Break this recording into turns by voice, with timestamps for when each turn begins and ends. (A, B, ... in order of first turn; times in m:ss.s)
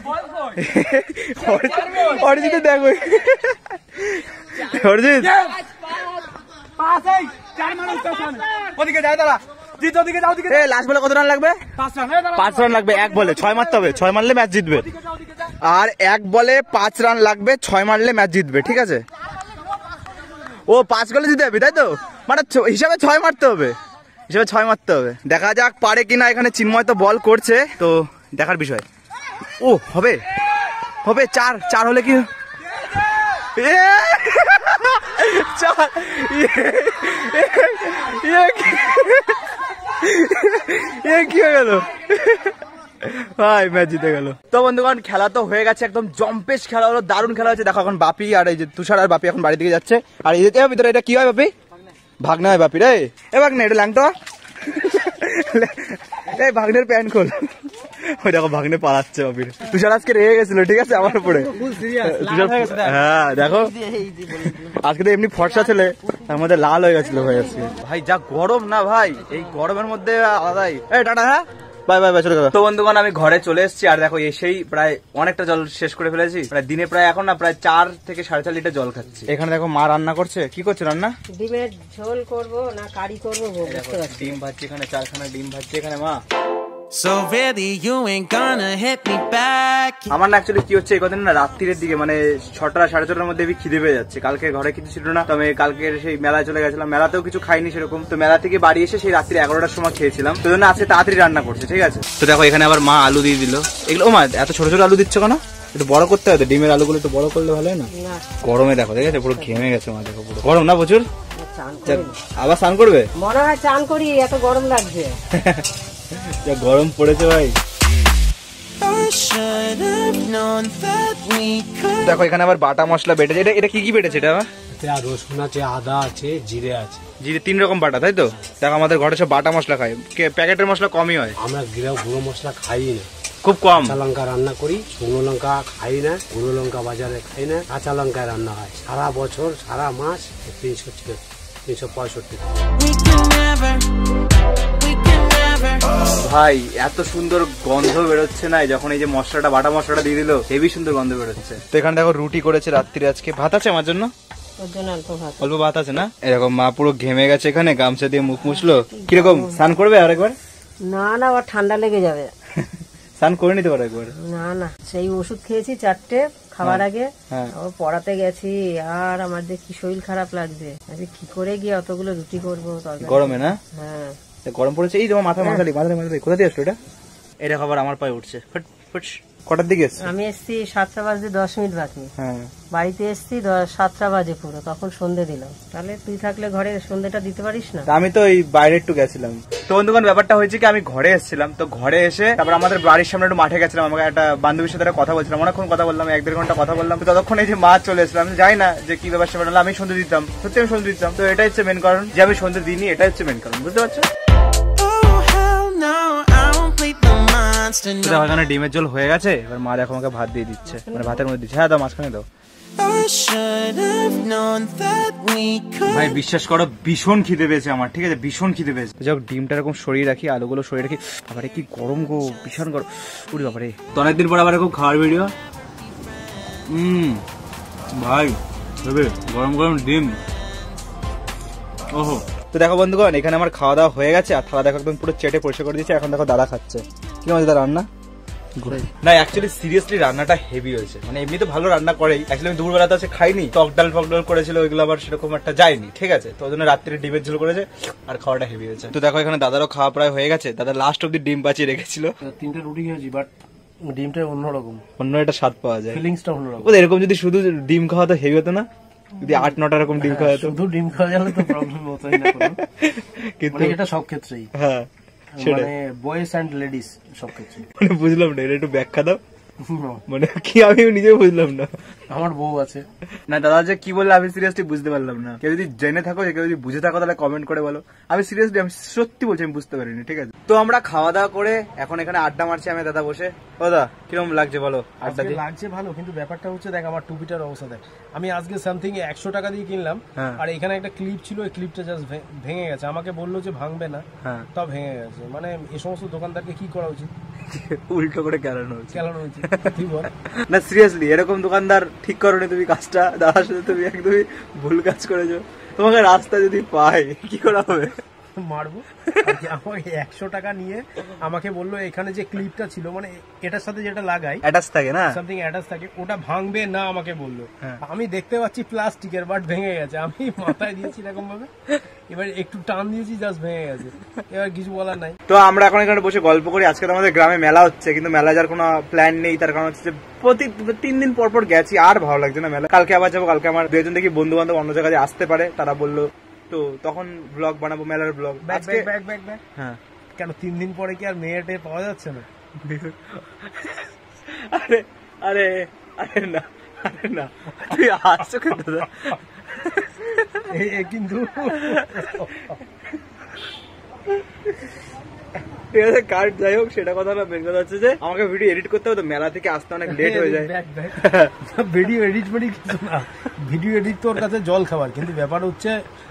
0:00.5-0:05.5 A
0:10.4-0:11.6 A
0:12.2-0:14.9 A
0:15.6-0:19.0 A
0:20.7-0:23.7 A
0:24.3-0:28.8 A
0:29.6-0:30.2 A
0:31.0-0:32.3 A
0:33.6-0:51.5 A
0:52.2-0:54.1 A
0:54.6-0:57.5 A
0:58.1-1:21.1 A
1:21.4-1:24.4 B
1:23.7-1:26.2 A
1:26.9-1:30.1 C
1:30.1-1:47.9 A
1:47.9-1:48.3 B
1:48.4-1:51.1 A
1:49.0-1:49.7 B
1:51.4-1:52.2 B
1:51.9-1:53.1 A
1:53.2-1:55.2 B
1:55.3-1:55.6 A
1:56.3-1:57.5 A
1:58.8-2:02.2 C
2:02.0-2:04.5 A
2:04.7-2:07.0 D
2:07.2-2:11.4 A
2:11.4-2:13.1 D
2:13.4-2:14.0 A
2:13.8-2:22.5 D
2:22.8-2:23.8 C
2:24.8-2:25.8 C
2:26.2-2:34.1 A
2:34.6-2:35.4 B
2:35.4-2:40.4 A
2:38.6-2:39.6 B
2:40.9-2:42.3 B
2:42.6-2:44.1 A
2:44.2-2:54.2 B
2:46.6-2:47.5 A
2:53.0-2:53.6 A
2:54.4-2:56.8 A
2:55.4-2:55.6 B
2:57.4-3:00.1 A
3:00.0-3:02.1 B
3:02.2-3:02.5 A
3:02.7-3:07.9 B
3:07.9-3:24.1 A
3:24.8-3:28.4 C
3:28.0-3:32.2 A
3:30.7-3:31.2 B
3:32.8-3:36.2 C
3:35.9-3:45.3 A
3:46.7-3:47.2 A
3:48.0-3:50.2 A
3:51.9-3:57.9 A
3:58.6-4:12.1 A
4:12.2-4:13.3 E
4:13.8-4:14.8 E
4:15.0-4:16.0 A
4:15.9-4:16.8 E
4:16.6-4:18.7 A
4:19.2-4:20.6 A
4:19.3-4:22.6 E
4:22.2-4:23.8 A
4:23.5-4:24.5 E
4:24.6-4:24.9 A
4:25.4-4:27.7 E
4:25.4-4:25.7 A
4:27.8-4:29.2 A
4:29.6-4:30.0 E
4:30.1-4:31.7 A
4:32.1-4:32.9 E
4:33.3-4:45.4 A
4:45.0-4:57.1 E
4:57.5-4:59.7 A
4:58.9-5:00.1 E
5:00.4-5:07.9 A
5:08.4-5:14.4 E
5:14.4-5:15.2 A
5:15.1-5:21.5 E
5:22.1-5:25.2 E
5:25.3-5:38.9 A
5:38.4-5:39.4 E
5:40.2-5:42.3 E
5:42.6-5:50.4 A
5:50.5-5:52.5 E
5:51.5-5:52.1 A
5:55.7-6:01.3 A
5:59.9-6:05.8 E